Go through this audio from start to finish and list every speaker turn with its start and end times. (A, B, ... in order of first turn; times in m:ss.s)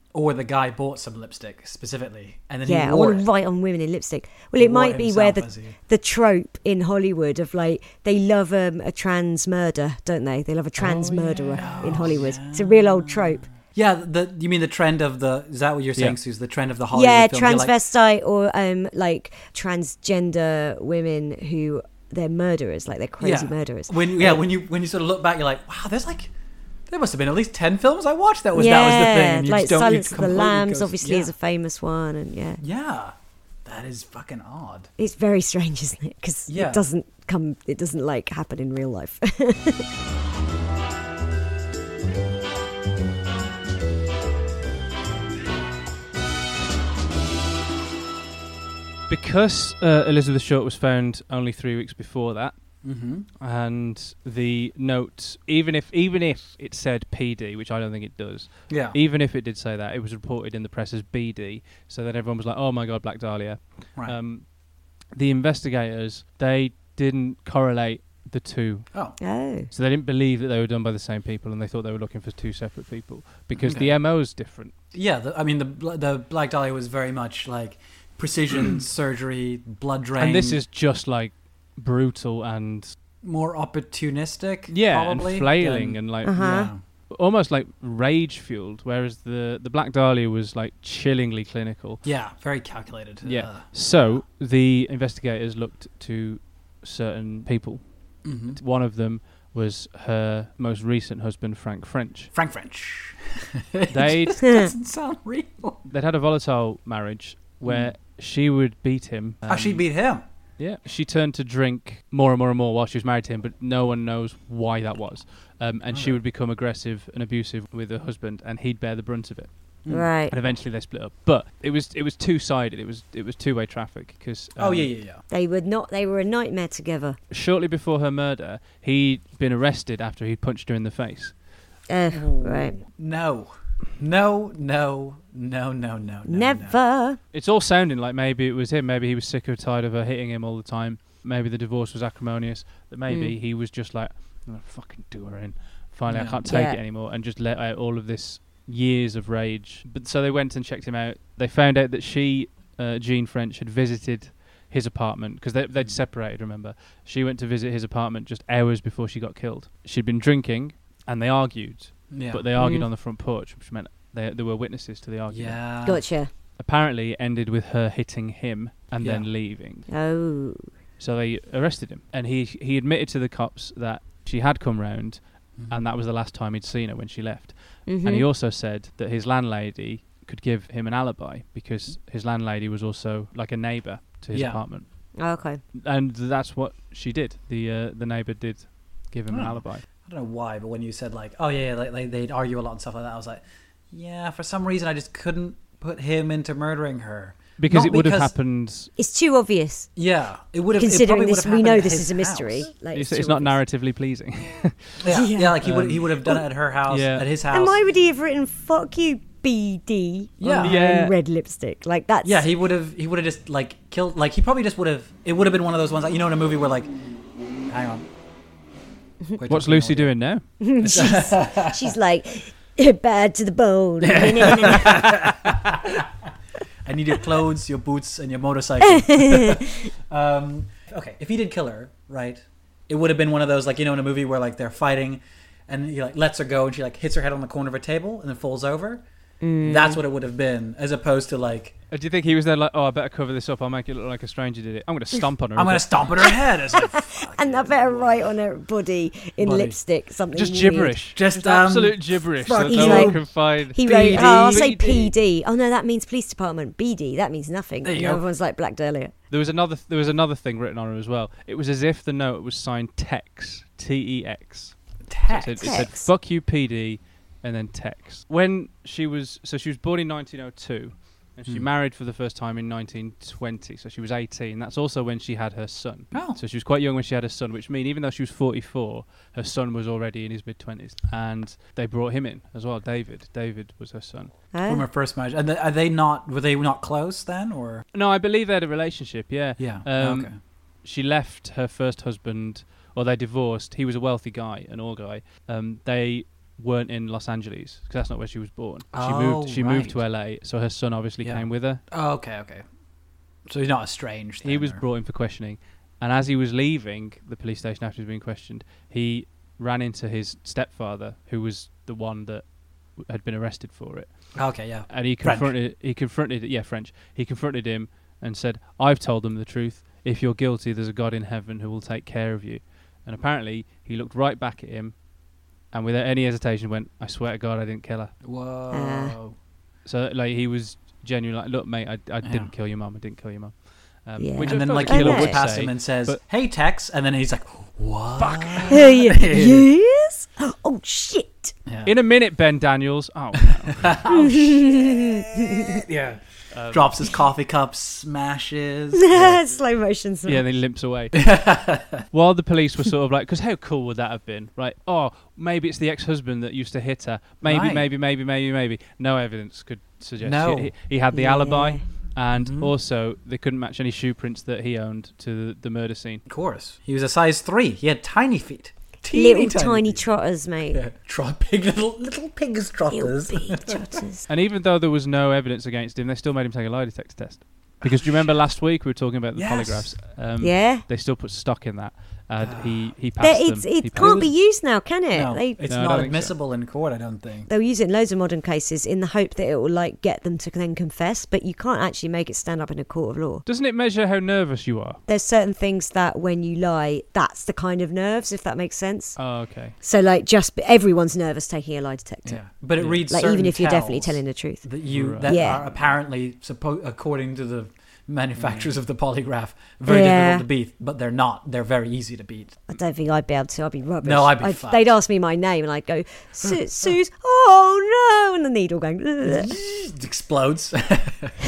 0:00.1-0:03.2 A
0:02.6-0:13.4 B
0:04.6-0:05.8 A
0:10.8-0:12.2 C
0:11.0-0:17.7 A
0:16.9-0:24.4 B
0:23.2-0:26.3 A
0:26.9-0:31.3 A
0:28.5-0:32.6 B
0:32.6-0:33.1 A
0:33.6-0:34.9 A
0:35.0-0:39.8 B
0:36.5-0:36.8 A
0:49.1-0:52.5 C
0:52.8-0:53.3 A
0:53.4-1:04.5 C
0:58.7-0:59.0 A
1:05.1-1:08.9 C
1:09.2-1:09.7 B
1:09.7-1:14.7 C
1:13.5-1:14.0 A
1:14.9-1:20.6 A
1:20.2-1:22.9 C
1:23.2-1:26.8 A
1:24.7-1:26.5 C
1:26.2-1:26.7 B
1:27.1-1:32.0 C
1:32.0-1:34.1 A
1:33.2-1:37.8 C
1:38.2-1:38.6 A
1:38.5-1:42.3 C
1:42.3-1:45.9 A
1:43.9-1:44.4 C
1:44.4-1:44.7 B
1:45.9-1:49.8 C
1:47.6-1:47.9 A
1:49.5-1:50.2 A
1:50.6-1:59.5 C
1:55.9-1:56.2 A
1:59.9-2:00.3 B
2:00.3-2:04.9 C
2:04.6-2:05.2 A
2:05.3-2:07.2 B
2:07.3-2:11.3 C
2:11.9-2:12.8 B
2:12.1-2:16.8 A
2:16.3-2:17.2 B
2:17.3-2:45.6 C
2:23.1-2:23.4 B
2:26.1-2:26.4 A
2:26.5-2:26.8 B
2:42.1-2:42.5 A
2:42.6-2:42.9 B
2:45.3-2:46.0 A
2:45.8-2:46.3 B
2:46.6-2:49.9 C
2:49.0-2:49.3 A
2:49.9-2:50.7 B
2:51.0-3:04.8 C
2:57.9-2:58.3 B
3:04.3-3:04.6 A
3:05.2-3:05.6 B
3:05.7-3:09.8 C
3:09.3-3:18.3 A
3:17.6-3:18.9 C
3:19.0-3:19.9 B
3:20.0-3:22.7 A
3:20.7-3:23.6 B
3:22.9-3:25.0 C
3:25.0-3:27.8 A
3:25.1-3:25.6 B
3:25.6-3:26.2 C
3:26.9-3:27.3 C
3:27.5-3:32.5 B
3:30.4-3:30.8 A
3:30.4-3:31.1 C
3:32.2-3:36.9 A
3:37.7-3:38.1 A
3:39.4-3:40.1 A
3:39.5-3:40.4 C
3:40.6-3:45.2 B
3:40.8-3:41.9 A
3:44.0-3:46.1 A
3:46.8-3:59.0 A
3:48.9-3:49.7 B
3:59.4-4:00.0 B
3:59.6-4:01.7 A
4:01.9-4:06.1 C
4:05.6-4:08.3 A
4:06.2-4:10.9 B
4:09.4-4:09.8 A
4:10.3-4:15.1 C
4:11.1-4:15.1 A
4:12.7-4:19.1 B
4:17.8-4:18.2 A
4:19.3-4:24.8 C
4:25.1-4:25.9 A
4:25.3-4:44.3 C
4:25.6-4:26.1 B
4:36.1-4:36.4 A
4:44.5-4:44.8 B
4:44.6-4:47.8 A
4:47.9-5:01.8 C
4:49.6-4:50.3 A
4:58.9-5:00.0 A
5:01.2-5:02.6 A
5:03.4-5:04.8 A
5:04.4-5:12.4 C
5:13.0-5:14.1 C
5:14.3-5:15.5 A
5:14.9-5:24.9 C
5:25.7-5:28.1 C
5:28.2-5:29.3 A
5:28.7-5:29.2 B
5:29.8-5:33.5 C
5:32.2-5:32.5 A
5:34.0-5:36.2 C
5:34.2-5:35.4 B
5:34.4-5:39.7 A
5:38.2-5:38.8 C
5:38.7-5:41.5 B
5:41.7-5:41.9 A
5:41.8-5:44.1 C
5:43.4-5:49.5 A
5:44.1-5:45.8 B
5:46.5-5:46.9 C
5:49.0-5:50.4 B
5:50.2-5:51.4 C
5:51.1-5:52.0 A
5:52.1-6:06.2 C
5:57.4-5:57.8 A
6:00.2-6:00.7 A
6:01.1-6:01.8 B
6:02.4-6:02.7 A
6:06.3-6:10.0 A
6:09.1-6:10.8 B
6:10.7-6:13.8 A
6:12.9-6:14.2 B
6:14.3-6:24.3 C
6:17.8-6:18.3 A
6:19.4-6:19.9 A
6:20.4-6:20.8 B
6:22.4-6:22.9 A
6:23.2-6:25.6 B
6:24.0-6:24.3 A
6:25.1-6:27.5 A
6:25.7-6:26.3 C
6:27.5-6:33.4 B
6:33.4-6:35.0 C
6:35.1-6:39.2 B
6:39.2-6:39.8 C
6:39.8-6:42.4 B
6:42.2-6:52.7 A
6:43.1-6:44.6 B
6:44.9-6:45.8 C
6:45.2-6:45.6 B
6:48.4-6:48.7 C
6:49.8-6:50.4 B
6:52.7-6:59.5 B
6:54.0-6:54.9 A
6:59.2-7:01.4 A